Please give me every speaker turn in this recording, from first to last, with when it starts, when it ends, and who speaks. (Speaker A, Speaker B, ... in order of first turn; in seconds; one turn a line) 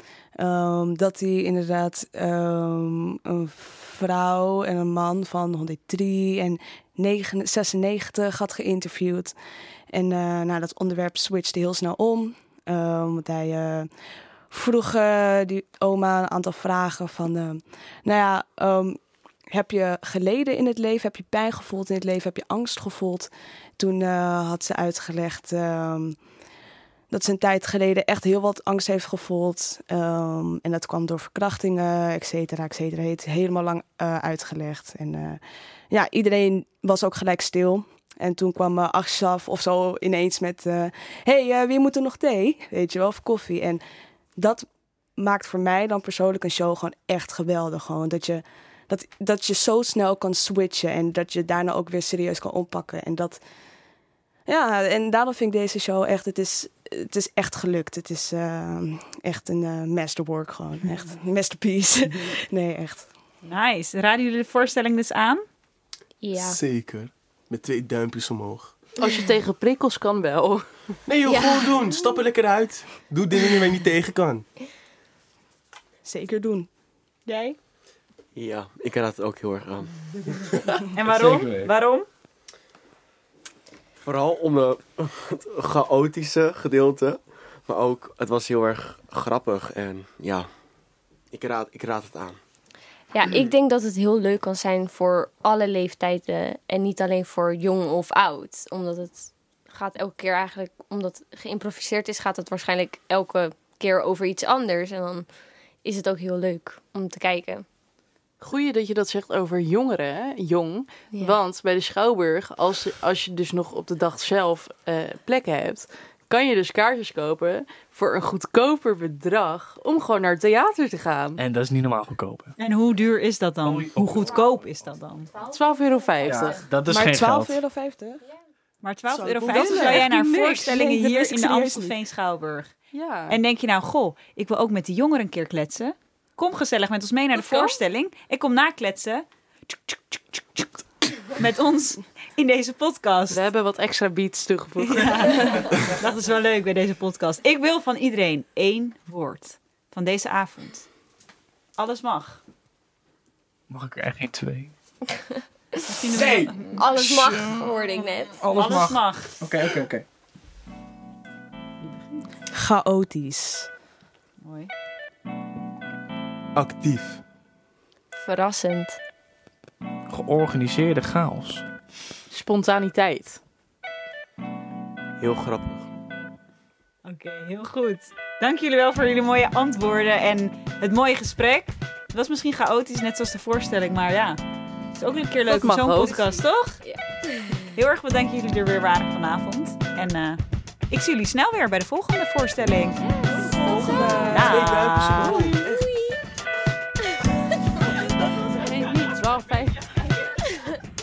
Speaker A: 0.4-9.3
Speaker A: 9.9-13.9
Speaker A: 14.5-19.0
Speaker A: 19.5-26.2
Speaker A: 27.1-35.4
Speaker A: 35.9-43.8
Speaker A: 44.4-44.6
Speaker A: 45.2-53.4
Speaker A: 54.5-63.1
Speaker B: 63.4-65.4
Speaker C: 66.2-66.6
Speaker D: 66.3-68.8
Speaker E: 69.0-71.0
Speaker D: 71.0-74.5
Speaker C: 71.2-72.2
Speaker A: 76.0-76.7
Speaker B: 77.3-77.5
Speaker F: 78.3-79.9
Speaker B: 80.9-82.1
Speaker G: 81.0-81.7
Speaker F: 84.0-87.2
Speaker F: 87.7-90.5
Speaker F: 91.3-92.4
Speaker C: 93.1-105.2
Speaker C: 105.8-107.6
Speaker E: 108.4-121.4
Speaker G: 121.4-122.5
Speaker B: 122.6-125.3
Speaker G: 123.6-124.7
Speaker E: 125.4-126.6
Speaker G: 126.2-127.6
Speaker A: 126.8-128.3
Speaker B: 128.8-132.7
Speaker A: 129.1-130.0
Speaker E: 129.4-130.8
Speaker A: 130.6-131.9
Speaker E: 132.9-133.4
Speaker B: 133.3-143.4
Speaker E: 137.3-137.8
Speaker E: 143.3-145.7
Speaker B: 144.8-150.9
Speaker B: 151.8-152.4
Speaker G: 153.7-154.7
Speaker B: 155.8-156.7
Speaker D: 156.3-156.6
Speaker C: 156.7-158.4
Speaker G: 158.4-160.0
Speaker B: 158.5-159.4
Speaker A: 162.5-163.7
Speaker B: 164.4-164.7
Speaker D: 166.6-167.2
Speaker C: 168.1-169.0
Speaker G: 170.1-171.6
Speaker E: 172.3-173.4
Speaker F: 175.2-175.8
Speaker B: 177.0-184.4
Speaker B: 184.9-186.8
Speaker E: 185.4-186.2
Speaker C: 186.8-187.7
Speaker B: 187.7-193.0
Speaker C: 193.0-194.8
Speaker A: 193.3-195.7
Speaker B: 193.9-195.4
Speaker E: 195.2-195.6
Speaker C: 195.4-196.2
Speaker E: 198.4-199.9